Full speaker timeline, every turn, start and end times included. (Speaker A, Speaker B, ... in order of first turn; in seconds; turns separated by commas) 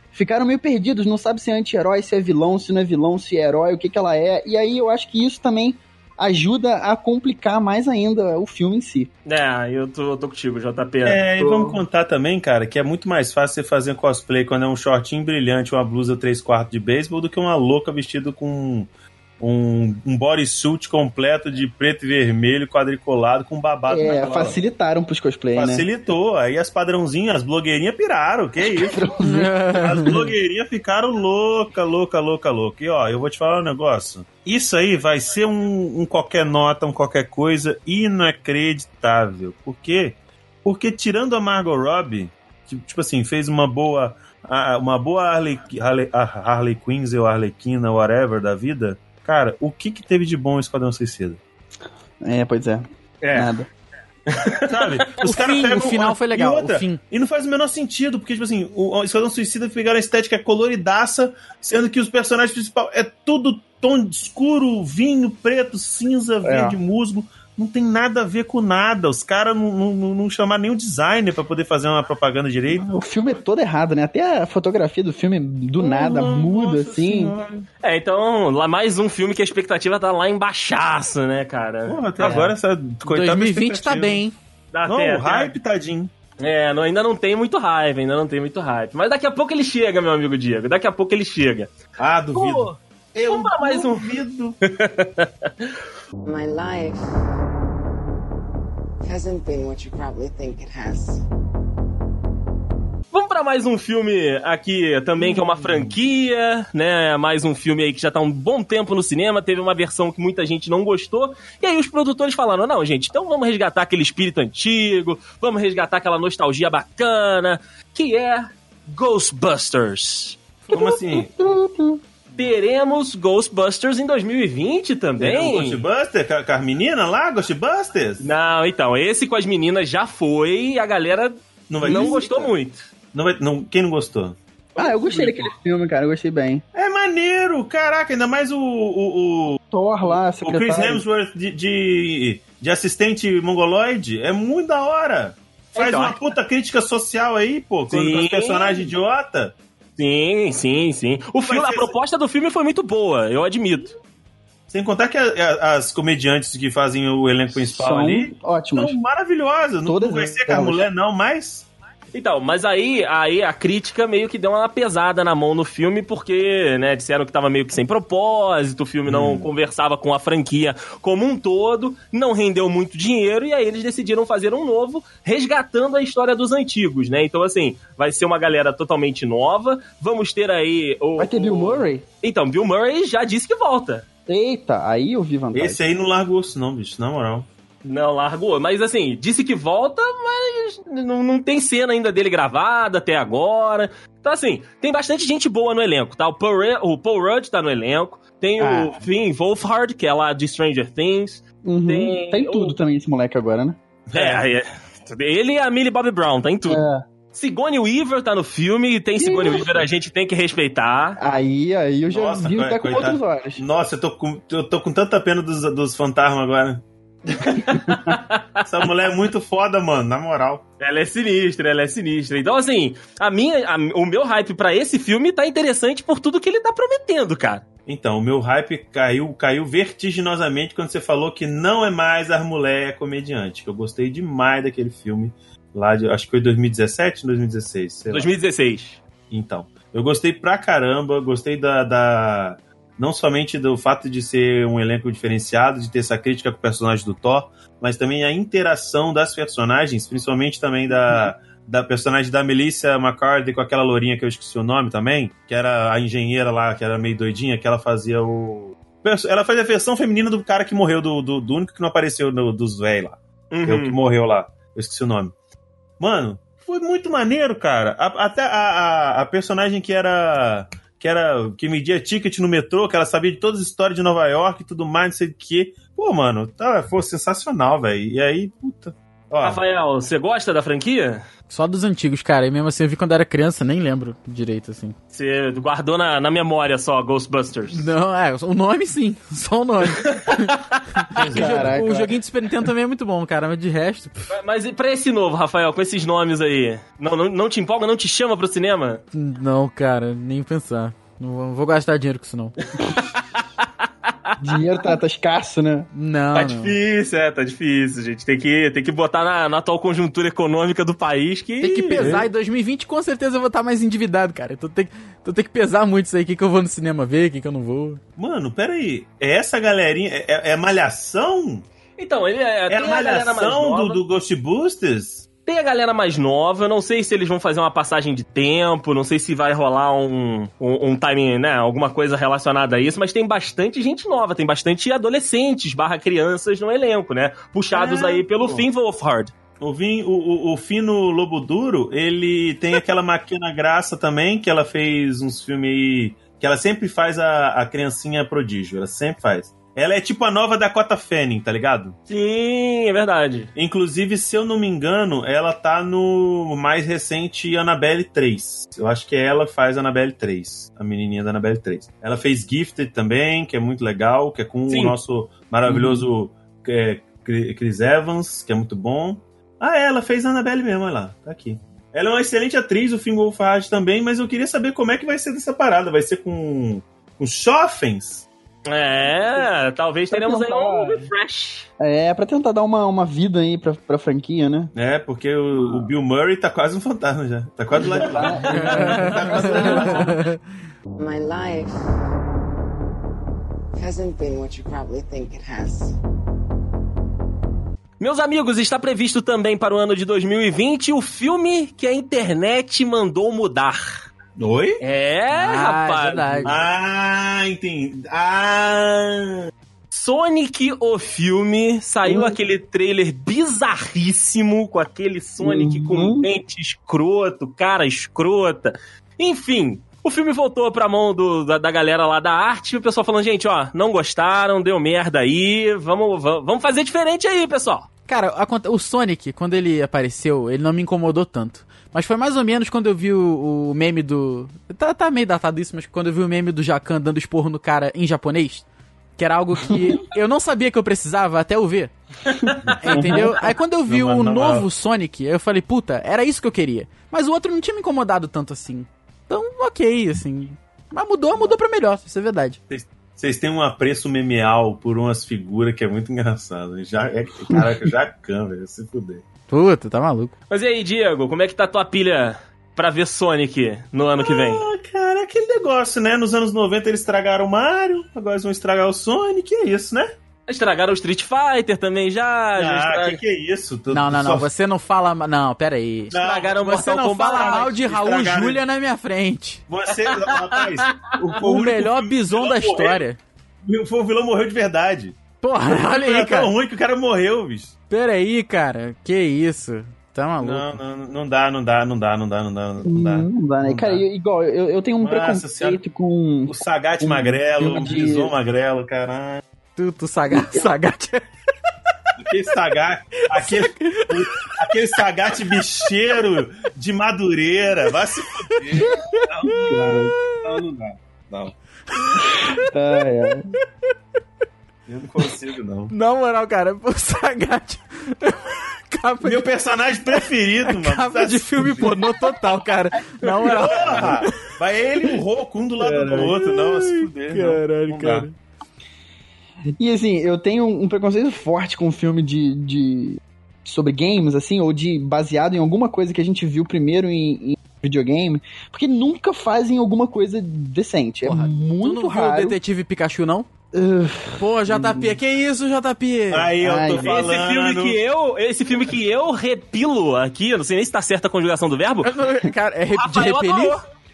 Speaker A: 0.1-9.1, Speaker B: 9.3-11.8, Speaker C: 11.1-18.9, Speaker C: 19.4-24.6, Speaker A: 23.9-25.9, Speaker C: 25.6-29.1, Speaker A: 28.6-30.2, Speaker D: 29.2-30.1, Speaker C: 29.7-51.4, Speaker A: 52.2-53.7, Speaker B: 53.2-53.5, Speaker B: 54.3-55.0, Speaker C: 54.7-72.9, Speaker D: 55.2-57.0, Speaker A: 66.4-66.8, Speaker A: 72.7-77.4, Speaker C: 75.8-77.7, Speaker B: 77.8-82.5, Speaker C: 81.9-84.2, Speaker D: 83.0-84.3, Speaker B: 84.7-85.6, Speaker C: 84.9-86.1, Speaker B: 86.4-91.7, Speaker C: 92.0-94.6, Speaker B: 92.3-95.7, Speaker E: 96.2-97.0, Speaker E: 99.0-101.2, Speaker B: 103.1-120.4, Speaker C: 105.6-105.9, Speaker C: 120.7-121.3, Speaker A: 120.7-122.0, Speaker B: 122.3-125.8, Speaker C: 125.2-128.3, Speaker B: 128.2-132.8, Speaker C: 131.7-132.5, Speaker A: 131.8-132.2, Speaker C: 133.1-134.4, Speaker B: 134.8-135.5, Speaker A: 134.8-136.6, Speaker C: 136.7-139.6, Speaker A: 139.7-141.0, Speaker C: 140.1-149.6, Speaker B: 145.8-146.2, Speaker B: 147.9-148.9, Speaker B: 150.0-154.0, Speaker C: 151.5-151.9, Speaker C: 154.7-161.7, Speaker A: 157.5-159.0, Speaker A: 159.9-160.8, Speaker B: 162.1-184.1, Speaker C: 169.1-169.5, Speaker A: 181.2-182.1, Speaker A: 184.3-185.8, Speaker C: 185.5-187.5, Speaker B: 187.8-202.8, Speaker A: 198.6-199.0, Speaker A: 201.7-203.8, Speaker C: 204.1-204.4, Speaker B: 204.2-211.2, Speaker A: 206.7-207.0, Speaker A: 209.2-209.9, Speaker A: 211.2-213.6, Speaker C: 212.1-217.7, Speaker A: 217.7-218.2, Speaker C: 218.6-220.6, Speaker B: 220.8-227.7, Speaker C: 227.9-238.3, Speaker B: 238.1-239.0, Speaker C: 239.3-265.3, Speaker A: 250.9-251.2, Speaker B: 263.5-264.0, Speaker C: 266.0-279.6, Speaker B: 279.4-281.2, Speaker D: 281.5-284.9, Speaker B: 285.1-287.9, Speaker D: 287.7-294.3, Speaker B: 290.0-290.6, Speaker C: 291.1-291.8, Speaker A: 291.2-292.2, Speaker B: 294.3-299.0, Speaker D: 299.1-302.5, Speaker A: 304.4-305.9, Speaker D: 305.9-306.8, Speaker B: 306.3-312.2, Speaker D: 311.6-318.0, Speaker C: 312.0-312.3, Speaker C: 318.2-321.7, Speaker B: 322.0-324.0, Speaker C: 322.7-325.3, Speaker B: 325.5-339.3, Speaker C: 337.7-338.7, Speaker C: 339.6-352.0, Speaker B: 352.1-353.5, Speaker C: 353.6-378.3, Speaker B: 364.7-365.0, Speaker A: 365.7-366.1, Speaker B: 378.7-381.7, Speaker A: 380.1-381.1, Speaker A: 381.8-384.7, Speaker C: 384.8-390.2, Speaker A: 387.8-390.1, Speaker B: 387.9-389.0, Speaker D: 388.5-390.4, Speaker E: 391.0-391.8, Speaker E: 393.7-396.0, Speaker B: 398.0-404.1, Speaker C: 404.4-404.8, Speaker B: 404.8-406.5, Speaker D: 405.3-406.6, Speaker C: 406.4-409.4, Speaker B: 409.9-427.9, Speaker A: 412.1-412.4, Speaker A: 415.4-416.3, Speaker D: 428.1-438.7, Speaker D: 439.2-441.9, Speaker A: 439.7-440.0, Speaker A: 442.5-443.3, Speaker C: 442.7-443.2, Speaker D: 442.8-452.6, Speaker C: 443.9-444.7, Speaker C: 452.7-459.2, Speaker A: 457.5-457.8, Speaker D: 459.5-460.3, Speaker B: 460.5-464.6, Speaker C: 464.2-470.1, Speaker B: 470.5-473.2, Speaker C: 472.6-474.5, Speaker D: 473.9-479.7, Speaker C: 476.1-476.6, Speaker B: 476.1-477.7, Speaker C: 477.1-478.6, Speaker C: 479.7-483.1, Speaker B: 480.0-481.1, Speaker D: 481.4-483.2, Speaker C: 483.6-487.7, Speaker D: 485.4-486.5, Speaker D: 487.9-490.8, Speaker C: 490.4-494.0, Speaker A: 492.9-498.3, Speaker C: 495.0-495.8, Speaker C: 496.5-499.4, Speaker D: 499.8-501.3, Speaker A: 500.3-500.7, Speaker C: 502.2-511.5, Speaker D: 503.3-504.7, Speaker D: 507.9-509.3, Speaker A: 509.5-510.1, Speaker D: 512.0-512.6, Speaker A: 512.2-513.5, Speaker C: 514.9-515.9, Speaker D: 515.9-519.5, Speaker C: 519.2-522.0, Speaker D: 520.1-524.4, Speaker A: 523.2-524.1, Speaker C: 523.5-528.3, Speaker A: 525.8-526.4, Speaker D: 526.4-528.4, Speaker A: 529.8-542.6, Speaker D: 541.2-543.5, Speaker A: 543.7-545.2, Speaker D: 544.4-546.5, Speaker C: 546.3-548.0, Speaker A: 546.6-547.2, Speaker B: 547.0-552.1, Speaker D: 552.0-553.8, Speaker B: 553.0-553.8